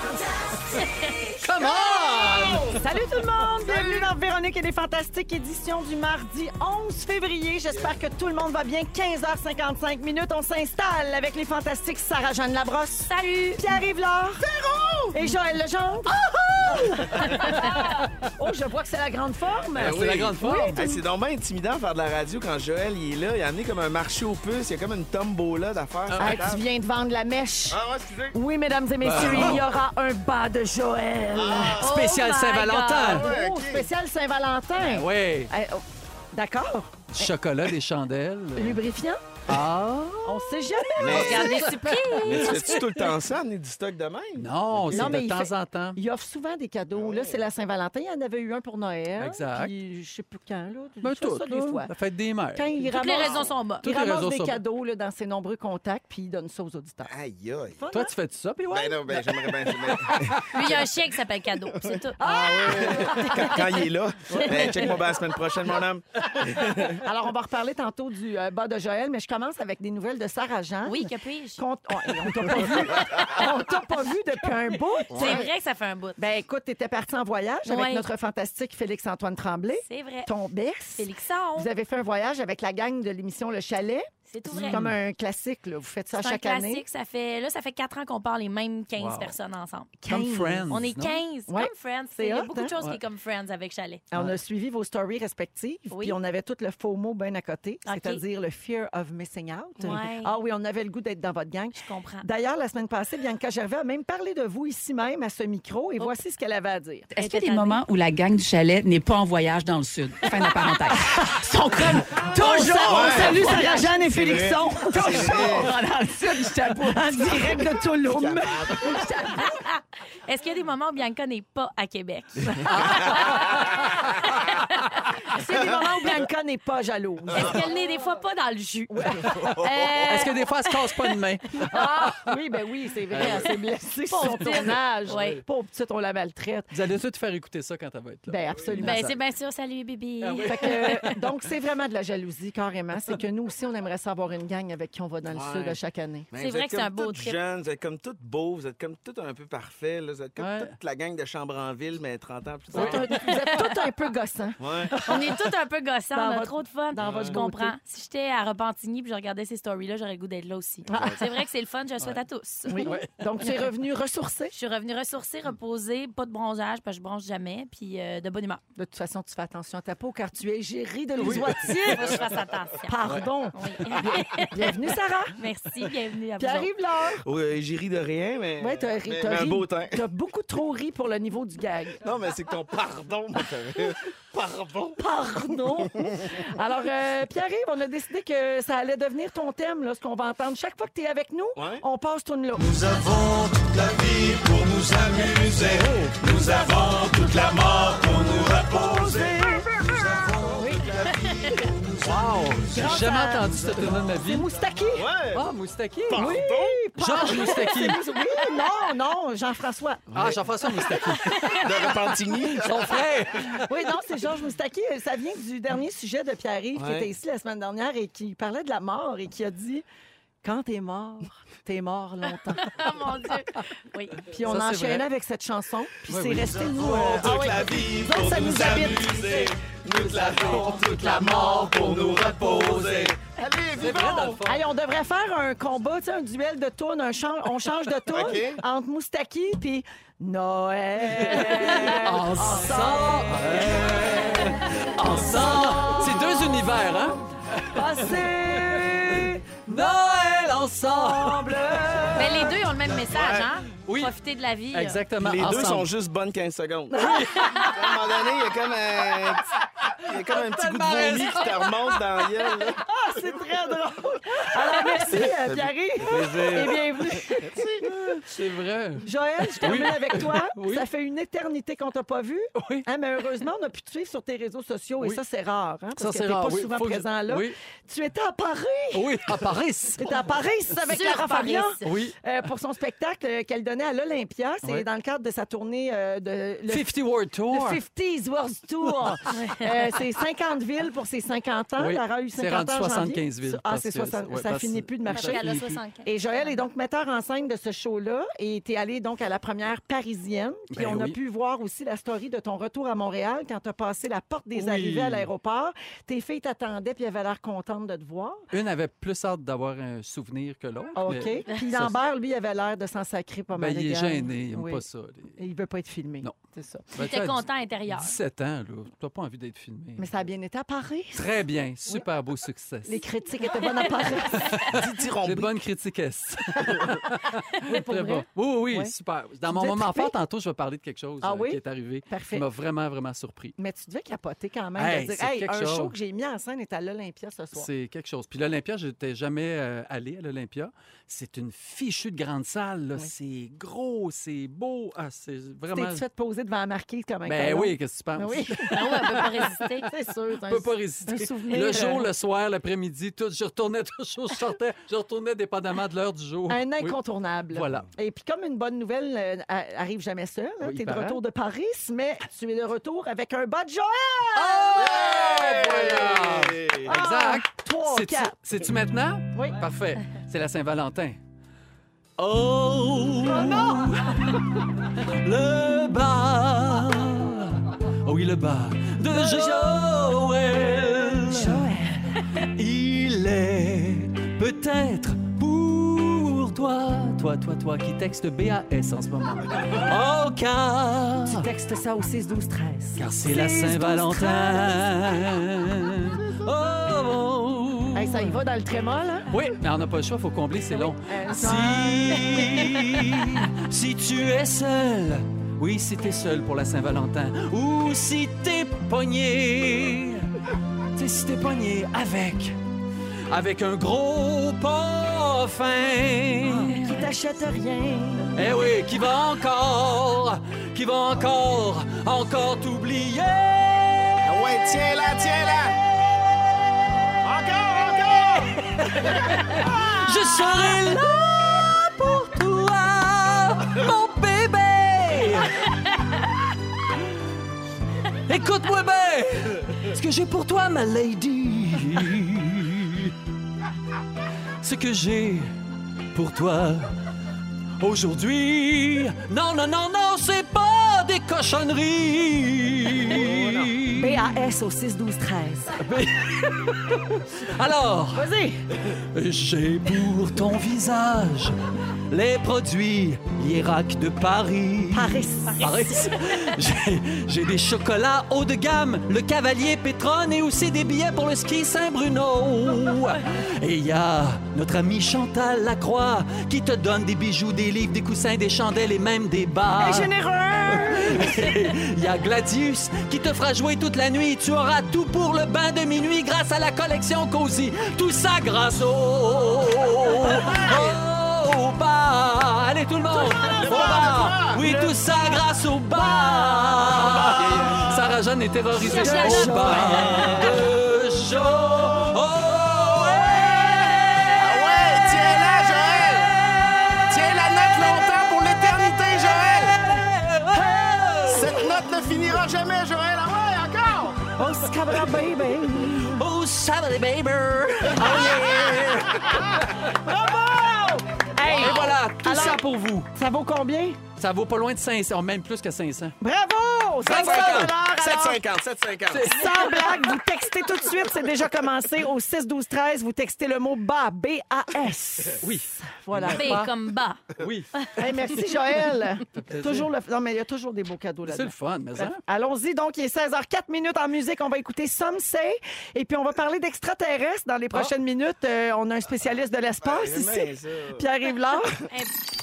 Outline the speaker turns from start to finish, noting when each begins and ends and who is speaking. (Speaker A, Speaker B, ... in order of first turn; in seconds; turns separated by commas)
Speaker A: 0.7-1.2, Speaker B: 1.3-2.8, Speaker C: 1.6-2.8, Speaker D: 2.8-14.4, Speaker C: 3.6-4.1, Speaker A: 13.1-13.6, Speaker C: 14.4-15.2, Speaker D: 15.1-21.0, Speaker C: 16.6-17.4, Speaker A: 17.0-17.8, Speaker B: 17.8-18.2, Speaker C: 19.7-26.6, Speaker B: 19.8-20.8, Speaker B: 26.1-26.4, Speaker D: 26.2-27.8, Speaker C: 27.7-28.4, Speaker D: 28.3-31.8, Speaker B: 29.0-29.6, Speaker C: 29.2-29.6, Speaker C: 31.3-32.0, Speaker B: 31.8-33.3, Speaker A: 31.8-33.2, Speaker C: 33.1-33.9, Speaker D: 33.1-37.3, Speaker B: 34.8-35.5, Speaker B: 37.1-38.8, Speaker D: 38.5-39.2, Speaker B: 39.5-43.1, Speaker D: 40.2-41.7, Speaker C: 41.0-45.2, Speaker A: 41.0-42.7, Speaker B: 44.4-46.0, Speaker D: 44.9-51.9, Speaker C: 46.9-47.4, Speaker B: 49.2-49.7, Speaker B: 51.0-52.7, Speaker D: 52.5-57.1, Speaker A: 52.8-53.9, Speaker C: 53.2-53.5, Speaker B: 53.8-54.6, Speaker C: 57.0-57.8, Speaker D: 57.8-58.1, Speaker B: 57.9-60.8, Speaker D: 58.6-58.9, Speaker C: 58.7-60.5, Speaker A: 60.5-63.6, Speaker D: 62.2-63.5, Speaker C: 62.6-67.0, Speaker D: 64.3-65.2, Speaker D: 66.9-75.5, Speaker A: 70.8-71.6, Speaker C: 75.1-75.5, Speaker A: 75.1-76.2, Speaker D: 76.2-86.8, Speaker A: 77.7-78.1, Speaker A: 79.8-80.3, Speaker A: 81.0-81.7, Speaker A: 84.3-84.8, Speaker B: 84.5-85.0, Speaker A: 86.2-89.9, Speaker B: 89.0-89.3, Speaker D: 90.0-92.8, Speaker B: 90.1-91.0, Speaker A: 90.7-94.0, Speaker D: 94.1-107.1, Speaker B: 94.1-94.4, Speaker A: 95.9-96.2, Speaker A: 97.8-98.2, Speaker A: 99.8-100.3, Speaker A: 101.8-102.3, Speaker E: 107.1-117.8, Speaker A: 107.2-107.8, Speaker A: 110.2-110.9, Speaker D: 111.8-119.6, Speaker C: 112.9-113.5, Speaker C: 114.1-115.7, Speaker C: 118.0-119.1, Speaker A: 119.3-125.2, Speaker B: 122.6-124.6, Speaker D: 125.3-127.8, Speaker C: 125.5-125.8, Speaker A: 127.3-131.1, Speaker D: 128.9-129.6, Speaker C: 129.3-130.2, Speaker B: 130.1-132.4, Speaker D: 131.5-136.7, Speaker B: 133.1-133.5, Speaker C: 133.1-133.5, Speaker A: 134.1-135.4, Speaker B: 134.2-134.7, Speaker B: 136.7-139.2, Speaker D: 138.3-139.1, Speaker C: 138.5-138.7, Speaker A: 138.8-140.8, Speaker B: 140.2-141.2, Speaker D: 140.4-146.3, Speaker C: 145.3-145.8, Speaker C: 146.3-153.1, Speaker A: 146.3-147.4, Speaker B: 150.4-150.7, Speaker D: 152.7-155.4, Speaker B: 152.7-153.2, Speaker A: 153.2-153.5, Speaker C: 154.6-154.9, Speaker A: 154.9-163.4, Speaker D: 156.1-157.7, Speaker C: 157.0-157.4, Speaker D: 160.9-161.4, Speaker C: 160.9-161.2, Speaker D: 162.7-164.5, Speaker B: 162.7-163.5, Speaker A: 164.5-168.6, Speaker D: 168.8-172.3, Speaker B: 171.2-172.4, Speaker A: 171.8-173.0, Speaker D: 172.9-175.4, Speaker A: 173.5-174.7, Speaker A: 175.3-176.7, Speaker D: 176.4-177.2, Speaker C: 177.2-180.0, Speaker D: 178.6-182.0, Speaker C: 182.0-185.0, Speaker D: 185.0-192.9, Speaker C: 186.0-186.4, Speaker C: 191.6-191.8, Speaker F: 192.8-195.7, Speaker C: 194.8-195.6, Speaker B: 195.8-196.2, Speaker F: 196.2-200.7, Speaker C: 196.3-196.7, Speaker D: 197.3-197.5, Speaker C: 197.8-199.4, Speaker D: 198.7-199.8, Speaker C: 200.2-201.8, Speaker D: 200.5-201.0, Speaker A: 201.1-201.7, Speaker F: 201.5-202.2, Speaker B: 202.0-204.5, Speaker D: 202.7-205.1, Speaker C: 204.9-205.5, Speaker B: 205.3-206.4, Speaker C: 206.1-206.8, Speaker D: 206.1-210.2, Speaker B: 207.0-208.0, Speaker C: 210.1-211.0, Speaker B: 210.2-213.7, Speaker C: 211.6-213.1, Speaker D: 213.7-219.8, Speaker C: 216.7-217.1, Speaker D: 220.4-222.8, Speaker A: 222.6-224.2, Speaker D: 224.3-229.5, Speaker B: 224.3-225.0, Speaker B: 226.1-226.6, Speaker C: 226.6-234.4, Speaker B: 230.0-233.1, Speaker B: 233.8-234.6, Speaker D: 234.4-246.7, Speaker C: 238.1-238.6, Speaker B: 241.2-252.5, Speaker D: 247.7-249.4, Speaker D: 250.8-252.5, Speaker A: 252.1-255.0, Speaker C: 253.0-253.5, Speaker B: 253.8-254.1, Speaker B: 254.7-255.9, Speaker C: 255.2-263.3, Speaker D: 256.9-257.2, Speaker B: 257.0-257.8, Speaker A: 257.3-257.7, Speaker B: 259.8-262.7, Speaker D: 262.8-267.8, Speaker B: 264.5-265.3, Speaker C: 265.4-267.9, Speaker B: 266.0-266.8, Speaker B: 267.8-270.8, Speaker D: 269.0-286.9, Speaker B: 272.6-272.9, Speaker B: 276.0-277.6, Speaker B: 278.9-280.2, Speaker A: 280.8-282.0, Speaker B: 281.8-282.2, Speaker B: 286.7-287.8, Speaker D: 287.5-295.5, Speaker B: 288.8-289.2, Speaker A: 289.3-289.8, Speaker B: 291.8-295.8, Speaker A: 295.1-296.6, Speaker D: 296.0-308.5, Speaker B: 300.7-301.1, Speaker B: 304.5-305.3, Speaker B: 308.5-312.0, Speaker D: 310.9-314.8, Speaker B: 313.5-315.4, Speaker D: 315.4-316.9, Speaker B: 316.9-320.1, Speaker A: 316.9-318.1, Speaker D: 320.0-321.4, Speaker B: 321.1-323.1, Speaker D: 322.8-324.7, Speaker A: 323.7-324.1, Speaker B: 323.9-333.5, Speaker C: 324.6-325.5, Speaker D: 326.6-326.9, Speaker D: 327.6-328.9, Speaker D: 329.5-330.1, Speaker D: 331.2-332.4, Speaker D: 333.6-337.7, Speaker B: 334.8-335.9, Speaker B: 337.5-346.0, Speaker D: 345.7-352.1, Speaker B: 347.2-349.9, Speaker A: 348.6-349.9, Speaker B: 350.4-356.9, Speaker D: 356.5-364.9, Speaker B: 357.5-357.9, Speaker B: 360.6-361.2, Speaker B: 364.3-371.2, Speaker C: 364.7-367.0, Speaker D: 366.8-368.3, Speaker D: 369.3-369.6, Speaker B: 372.2-381.7, Speaker D: 373.2-374.3, Speaker D: 379.1-379.7, Speaker D: 381.2-382.2, Speaker B: 382.3-391.5, Speaker D: 391.2-394.9, Speaker B: 393.0-398.4, Speaker D: 397.9-399.4, Speaker B: 399.3-410.3, Speaker D: 400.7-403.3, Speaker B: 410.9-412.6, Speaker B: 413.3-417.1, Speaker D: 416.4-418.6, Speaker B: 418.4-424.3, Speaker C: 424.2-425.8, Speaker B: 425.6-427.1, Speaker C: 427.2-428.5, Speaker B: 428.4-435.9, Speaker C: 429.5-430.0, Speaker B: 438.3-443.1, Speaker B: 444.6-445.5, Speaker B: 446.1-446.9, Speaker B: 447.8-454.2, Speaker D: 453.1-455.8, Speaker B: 455.8-458.3, Speaker D: 458.1-458.6, Speaker B: 458.8-480.1, Speaker D: 464.9-465.9, Speaker A: 465.5-466.1, Speaker D: 479.8-481.5, Speaker B: 480.7-511.7, Speaker C: 490.4-491.0, Speaker D: 493.1-493.9, Speaker C: 493.2-494.6, Speaker D: 494.5-495.0, Speaker D: 497.0-497.9, Speaker C: 497.1-497.8, Speaker D: 498.8-500.6, Speaker A: 498.8-500.6, Speaker C: 502.7-503.8, Speaker C: 504.3-506.4, Speaker C: 507.0-509.8, Speaker D: 510.5-511.6, Speaker C: 511.2-514.4, Speaker D: 514.3-516.2, Speaker B: 515.8-519.9, Speaker D: 517.9-524.0, Speaker C: 518.0-519.6, Speaker B: 521.4-523.1, Speaker C: 521.5-522.0, Speaker B: 524.2-526.2, Speaker D: 526.2-528.4, Speaker B: 527.0-527.7, Speaker C: 527.0-529.7, Speaker B: 529.1-530.1, Speaker D: 529.3-536.7, Speaker B: 535.4-536.7, Speaker A: 536.3-537.2, Speaker B: 537.4-538.2, Speaker D: 537.9-551.8, Speaker B: 539.4-539.9, Speaker B: 541.2-542.2, Speaker C: 549.8-551.1